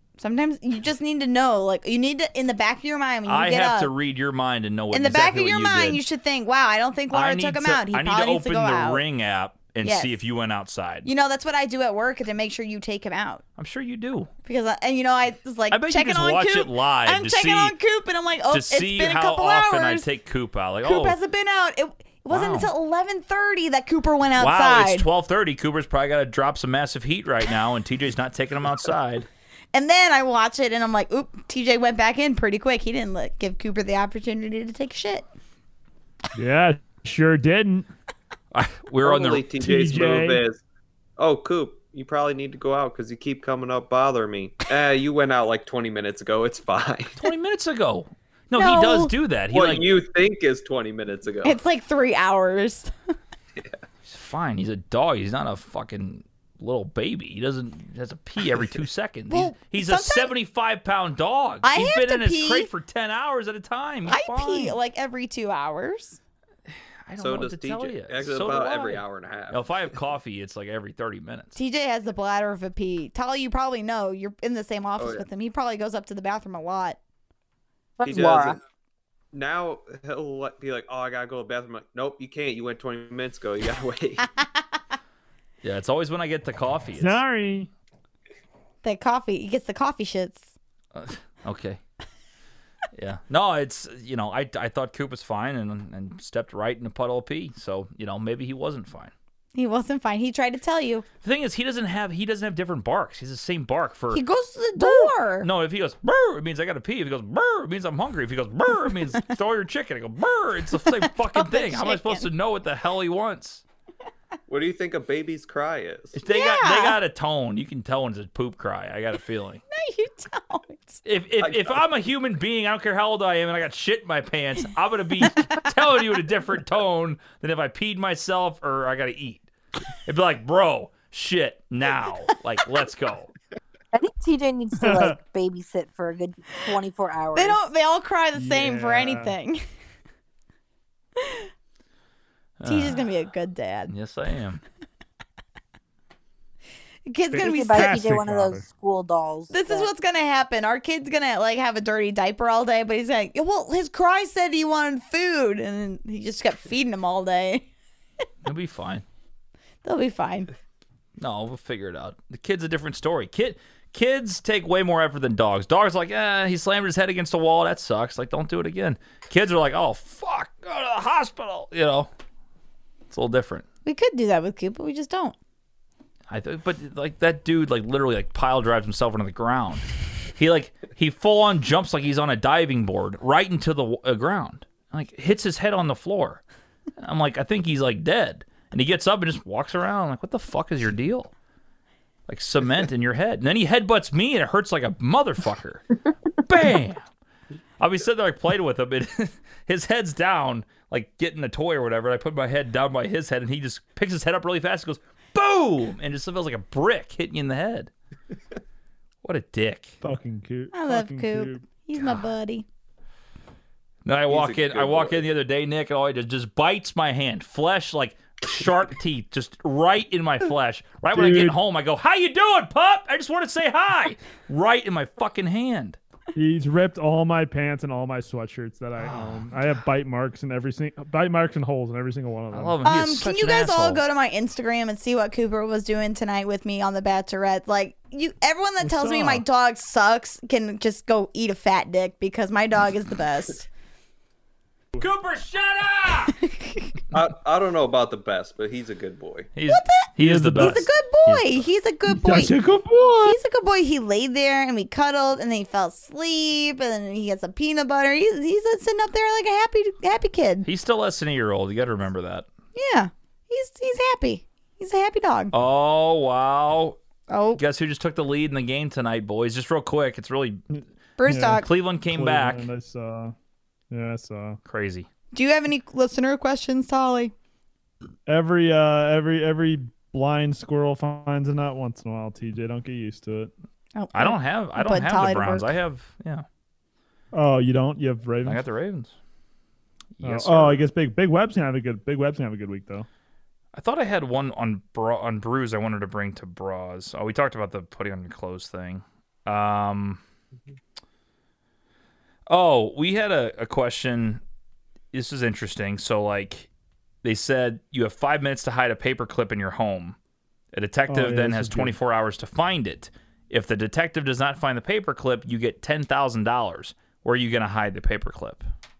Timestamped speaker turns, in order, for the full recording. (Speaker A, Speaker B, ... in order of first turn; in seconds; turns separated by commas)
Speaker A: 0.2-3.9, Speaker B: 3.3-6.0, Speaker A: 4.9-9.0, Speaker B: 7.1-11.1, Speaker A: 9.8-10.2, Speaker A: 11.0-13.4, Speaker B: 13.6-14.3, Speaker A: 14.4-20.1, Speaker B: 15.7-17.7, Speaker B: 18.5-21.2, Speaker A: 20.8-25.1, Speaker B: 22.3-22.7, Speaker B: 24.4-29.3, Speaker A: 29.7-35.2, Speaker C: 36.3-37.9, Speaker B: 38.5-39.5, Speaker D: 39.0-40.6, Speaker C: 39.6-40.4, Speaker D: 41.2-47.2, Speaker B: 47.2-49.9, Speaker A: 48.5-49.1, Speaker D: 49.5-51.6, Speaker A: 51.4-52.9, Speaker B: 54.0-64.8, Speaker A: 59.3-60.3, Speaker A: 61.6-62.7, Speaker A: 64.0-66.2, Speaker B: 67.1-71.5, Speaker D: 67.2-69.7, Speaker A: 71.5-77.0, Speaker D: 75.0-75.2, Speaker E: 78.0-78.6, Speaker D: 78.0-78.6, Speaker D: 79.3-84.3, Speaker B: 85.6-87.2, Speaker C: 87.0-87.7, Speaker A: 88.8-90.5, Speaker B: 90.9-91.8, Speaker B: 92.9-99.1, Speaker A: 99.5-101.0, Speaker B: 101.2-104.2, Speaker A: 104.1-105.5, Speaker B: 104.8-113.6, Speaker A: 111.0-112.2, Speaker D: 114.5-116.2, Speaker B: 116.1-119.6, Speaker A: 116.3-117.0, Speaker A: 119.7-121.0, Speaker B: 121.0-129.4, Speaker D: 121.4-121.8, Speaker B: 130.0-133.3, Speaker E: 133.9-137.6, Speaker C: 134.8-135.2, Speaker A: 137.3-139.6, Speaker C: 138.3-139.3, Speaker A: 141.2-141.5, Speaker B: 142.6-143.1, Speaker A: 142.7-143.9, Speaker B: 143.9-144.6, Speaker A: 147.1-148.1, Speaker C: 147.3-148.7, Speaker E: 147.3-149.9, Speaker A: 149.5-157.7, Speaker B: 158.4-159.0, Speaker A: 159.8-160.5, Speaker B: 161.2-172.1, Speaker B: 173.1-173.6, Speaker A: 173.8-175.3, Speaker B: 176.3-186.4, Speaker B: 187.0-191.3, Speaker B: 192.3-195.9, Speaker B: 196.4-197.1, Speaker B: 197.8-207.9, Speaker B: 209.2-209.9, Speaker C: 210.0-211.6, Speaker A: 210.7-212.7, Speaker B: 214.0-226.0, Speaker D: 214.3-215.2, Speaker C: 221.1-221.6, Speaker C: 226.3-232.8, Speaker B: 229.0-229.7, Speaker B: 232.5-234.0, Speaker A: 232.8-243.7, Speaker C: 238.8-239.4, Speaker B: 238.9-239.2, Speaker B: 245.0-246.4, Speaker A: 246.4-246.9, Speaker D: 247.1-249.5, Speaker B: 249.6-251.7, Speaker A: 249.7-252.6, Speaker C: 250.2-250.9, Speaker C: 252.1-253.4, Speaker A: 253.2-260.7, Speaker B: 260.6-262.4, Speaker A: 262.7-265.5, Speaker B: 265.5-267.0, Speaker A: 267.3-267.6, Speaker B: 267.6-270.6, Speaker A: 271.2-271.7, Speaker C: 271.3-273.3, Speaker B: 271.6-272.7, Speaker C: 273.9-274.6, Speaker B: 274.7-275.1, Speaker A: 275.3-277.3, Speaker C: 278.3-283.5, Speaker A: 283.9-285.7, Speaker B: 284.1-286.4, Speaker C: 287.3-288.6, Speaker B: 288.4-289.1, Speaker B: 290.2-290.8, Speaker C: 290.2-293.1, Speaker B: 293.7-300.2, Speaker B: 302.5-304.4, Speaker B: 305.1-306.7, Speaker B: 307.2-310.1, Speaker B: 310.7-318.6, Speaker C: 311.1-312.0